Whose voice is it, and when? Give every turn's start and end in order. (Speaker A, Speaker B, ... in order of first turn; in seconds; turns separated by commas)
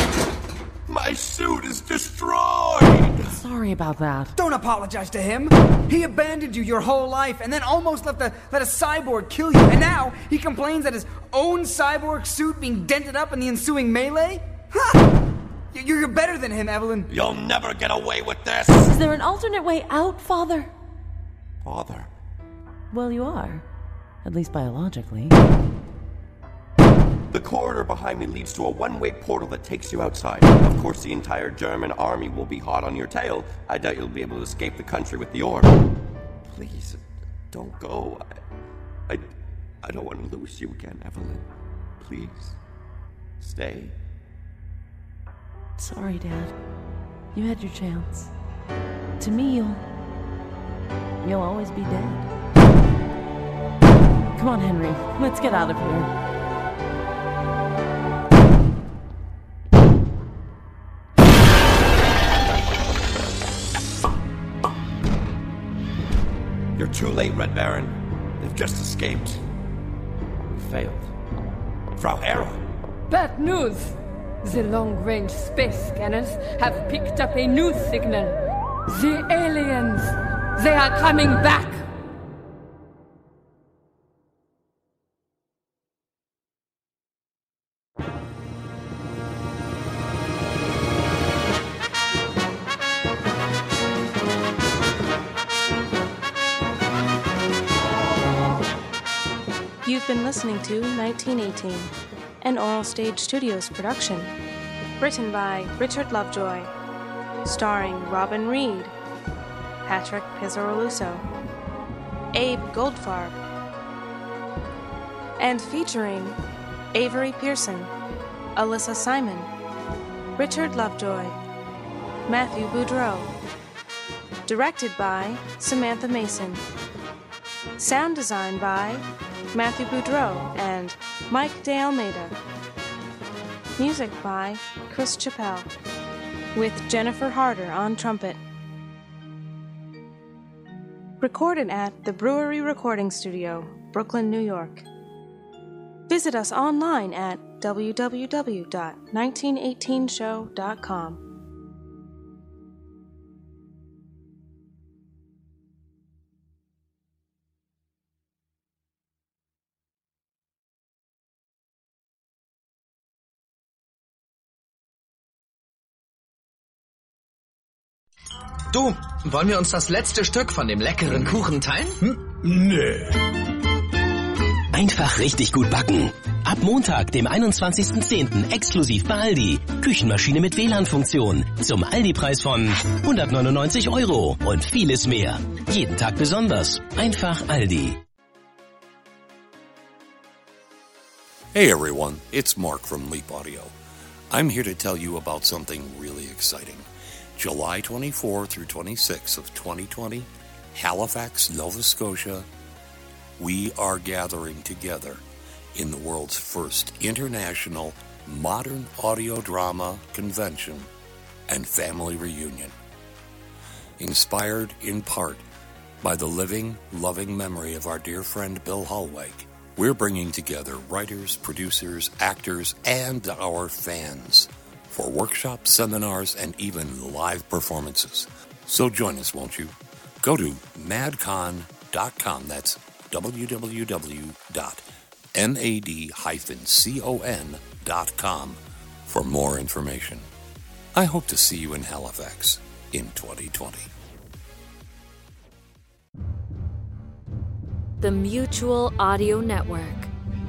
Speaker A: 0.9-3.4, Speaker B: 3.3-4.3, Speaker C: 4.3-15.1, Speaker C: 15.7-17.1, Speaker A: 17.1-18.9, Speaker B: 18.7-20.7, Speaker A: 21.6-22.1, Speaker B: 22.9-23.6, Speaker B: 24.2-25.4, Speaker A: 27.3-35.8, Speaker A: 36.4-38.4, Speaker A: 39.8-41.5, Speaker A: 42.0-42.6, Speaker A: 43.4-44.0, Speaker B: 45.8-46.5, Speaker B: 47.3-48.3, Speaker B: 49.2-49.8, Speaker B: 51.2-52.3, Speaker B: 54.3-56.1, Speaker A: 66.8-69.4, Speaker A: 70.5-71.1, Speaker A: 72.0-72.7, Speaker D: 73.1-78.3, Speaker D: 78.9-81.8, Speaker E: 99.8-104.3, Speaker E: 105.0-106.7, Speaker E: 107.4-108.9, Speaker E: 109.8-111.2, Speaker E: 112.3-113.4, Speaker E: 115.4-116.4, Speaker E: 116.9-117.9, Speaker E: 118.5-119.5, Speaker E: 120.4-121.4, Speaker E: 122.3-123.3, Speaker E: 124.5-126.6, Speaker E: 127.8-132.4, Speaker E: 133.8-135.7, Speaker E: 136.5-138.4, Speaker E: 141.2-144.8, Speaker E: 146.1-151.2, Speaker F: 168.7-173.0, Speaker G: 174.7-188.0, Speaker H: 191.5-193.7, Speaker H: 194.3-202.5, Speaker H: 203.4-205.2, Speaker H: 205.7-210.9, Speaker H: 211.5-212.7, Speaker H: 214.0-215.4, Speaker H: 216.0-234.8, Speaker H: 235.3-240.3, Speaker H: 240.9-243.9, Speaker I: 248.0-250.1